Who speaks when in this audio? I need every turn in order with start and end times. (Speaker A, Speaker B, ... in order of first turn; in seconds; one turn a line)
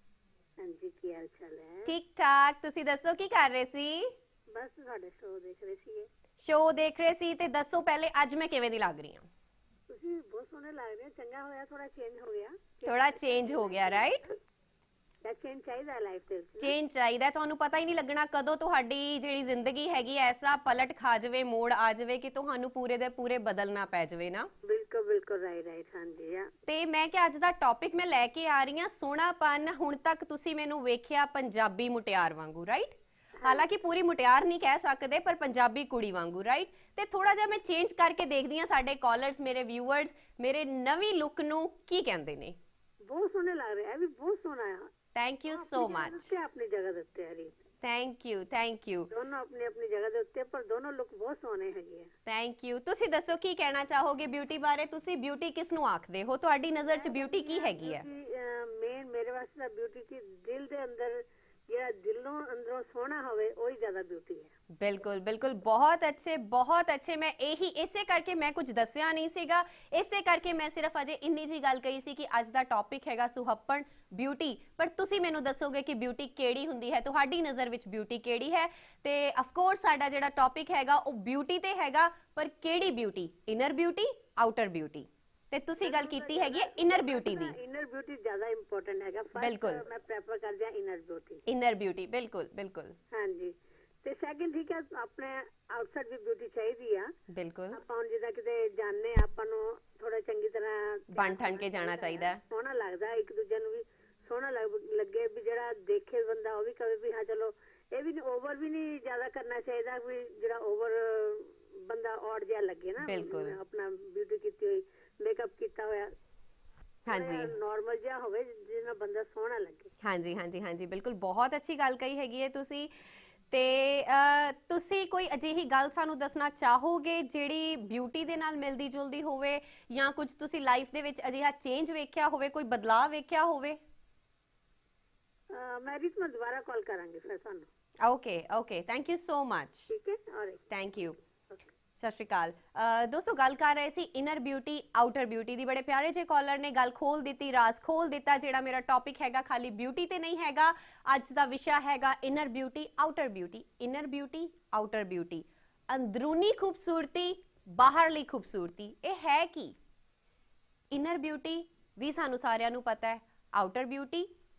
Speaker A: 0.6-1.9
Speaker B: 1.9-4.1
Speaker A: 4.5-6.1
Speaker B: 6.4-9.3
Speaker A: 9.9-14.3
Speaker B: 12.8-14.2
Speaker A: 15.2-16.7
Speaker B: 16.6-24.5
Speaker A: 24.6-26.5
Speaker B: 26.7-42.6
Speaker A: 43.0-44.9
Speaker B: 45.1-46.3
Speaker A: 45.5-47.5
Speaker B: 47.8-49.1
Speaker A: 49.1-52.1
Speaker B: 52.2-58.0
Speaker A: 56.9-64.5
Speaker B: 64.8-87.5
Speaker A: 85.8-91.4
Speaker B: 89.4-89.8
Speaker B: 91.5-92.9
Speaker A: 93.1-97.1
Speaker B: 97.3-97.8
Speaker A: 97.7-116.1
Speaker B: 101.1-102.4
Speaker B: 113.0-113.6
Speaker B: 117.0-117.5
Speaker A: 117.1-119.9
Speaker B: 120.0-122.9
Speaker B: 123.5-133.8
Speaker A: 135.5-137.7
Speaker B: 138.0-139.9
Speaker A: 139.9-140.6
Speaker B: 140.7-141.2
Speaker B: 142.0-159.7
Speaker B: 160.9-164.3